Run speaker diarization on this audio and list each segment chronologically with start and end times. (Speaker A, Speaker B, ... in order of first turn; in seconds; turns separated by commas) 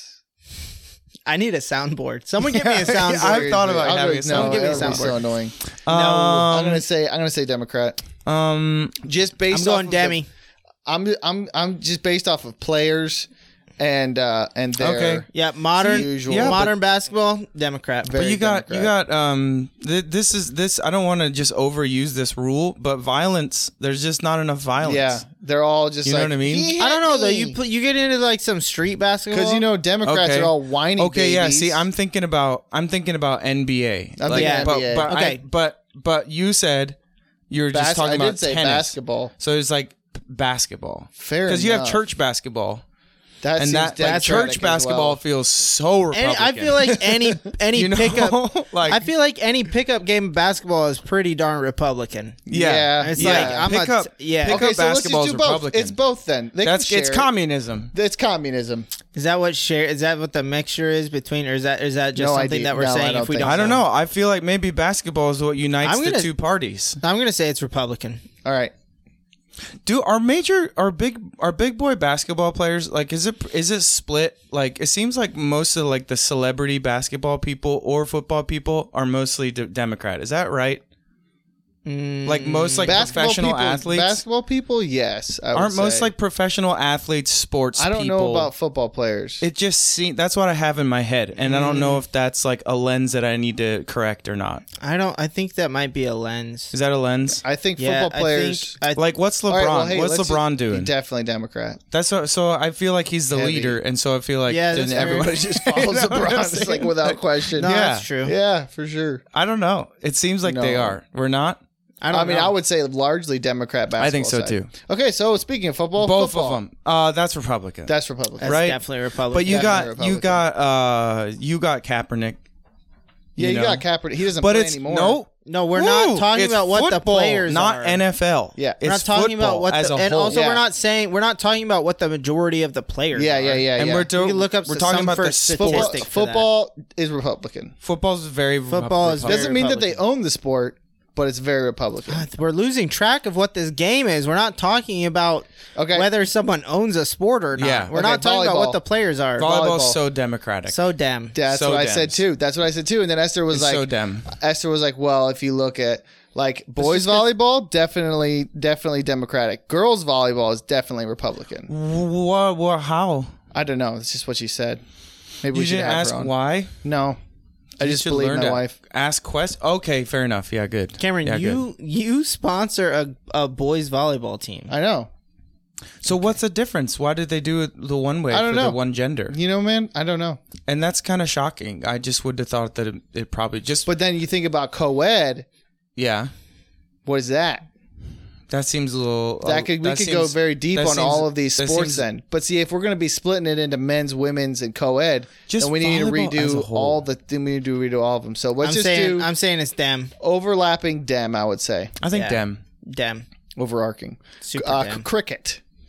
Speaker A: 1.2-3.5, Speaker B: 2.4-5.2, Speaker C: 3.0-5.5, Speaker A: 4.3-5.2, Speaker B: 5.8-6.8, Speaker A: 5.9-6.5, Speaker C: 6.4-8.0, Speaker B: 8.2-8.9, Speaker C: 9.0-10.2, Speaker A: 9.5-10.3, Speaker C: 10.8-13.3, Speaker C: 13.8-15.3, Speaker B: 14.8-15.2, Speaker A: 15.3-18.2, Speaker C: 15.8-16.6, Speaker B: 16.0-16.7, Speaker C: 18.0-18.9, Speaker B: 18.2-25.2, Speaker C: 24.8-27.6, Speaker B: 26.0-26.7, Speaker A: 26.8-29.6, Speaker C: 29.3-31.8, Speaker B: 30.0-37.0, Speaker C: 34.2-35.1, Speaker A: 34.3-35.4, Speaker B: 37.5-42.8, Speaker C: 37.7-39.3, Speaker C: 41.2-42.0, Speaker C: 43.4-45.2, Speaker B: 43.5-47.1, Speaker A: 44.0-44.5, Speaker A: 46.1-52.4, Speaker B: 47.7-49.1, Speaker C: 52.5-53.7, Speaker B: 52.5-56.0, Speaker A: 53.0-54.6, Speaker C: 54.4-57.3, Speaker B: 56.6-57.9, Speaker C: 57.9-58.9, Speaker A: 59.1-63.8, Speaker C: 62.1-63.8, Speaker B: 63.4-67.0, Speaker A: 65.8-66.3, Speaker A: 67.0-68.2, Speaker C: 68.4-68.7, Speaker B: 69.8-80.8, Speaker A: 81.8-83.1, Speaker B: 82.2-84.2, Speaker C: 82.8-86.1, Speaker B: 85.5-88.5, Speaker C: 87.8-89.4, Speaker B: 89.4-94.6, Speaker A: 91.4-92.0, Speaker A: 94.8-96.7, Speaker B: 96.7-97.4, Speaker C: 97.4-98.8, Speaker A: 97.8-99.0, Speaker B: 98.9-100.9, Speaker C: 99.5-101.8, Speaker B: 101.9-108.0, Speaker C: 103.3-103.8, Speaker A: 104.5-105.3, Speaker C: 104.8-109.2, Speaker A: 107.6-108.3, Speaker B: 109.3-111.6, Speaker C: 110.4-111.0, Speaker A: 112.0-112.5, Speaker C: 112.1-116.6, Speaker B: 114.0-114.7, Speaker B: 116.0-117.9, Speaker C: 117.9-118.6, Speaker A: 118.4-119.8, Speaker B: 118.4-122.4, Speaker C: 119.4-120.4, Speaker C: 123.3-125.2, Speaker B: 123.4-123.8, Speaker B: 124.4-130.4, Speaker A: 125.4-128.0, Speaker A: 128.8-136.4, Speaker C: 130.3-130.6, Speaker C: 133.1-134.1, Speaker B: 133.8-136.0, Speaker C: 135.6-137.7, Speaker B: 137.8-139.5, Speaker A: 138.7-140.0, Speaker C: 139.2-142.2, Speaker A: 142.1-149.5, Speaker C: 145.8-146.1, Speaker B: 147.6-147.9, Speaker C: 147.9-148.8, Speaker B: 149.4-150.8, Speaker C: 149.4-150.0, Speaker A: 150.7-151.3, Speaker C: 151.3-161.7, Speaker B: 151.5-152.2, Speaker B: 153.5-154.3, Speaker A: 156.8-157.2, Speaker B: 161.7-163.3, Speaker C: 163.5-164.8, Speaker C: 165.4-166.3, Speaker B: 165.5-166.7, Speaker C: 166.8-167.2, Speaker C: 167.8-168.8, Speaker B: 167.8-171.6, Speaker A: 171.0-174.7, Speaker C: 174.7-175.1, Speaker B: 176.0-179.3, Speaker C: 178.3-180.4, Speaker B: 180.7-183.9, Speaker C: 183.8-185.4, Speaker B: 186.0-186.3, Speaker C: 187.1-187.7, Speaker B: 188.5-192.0, Speaker C: 189.4-199.3, Speaker B: 195.5-197.0, Speaker A: 198.6-200.1, Speaker C: 200.2-201.9, Speaker B: 202.0-202.6, Speaker A: 202.1-203.2, Speaker C: 203.6-205.6, Speaker A: 204.4-205.1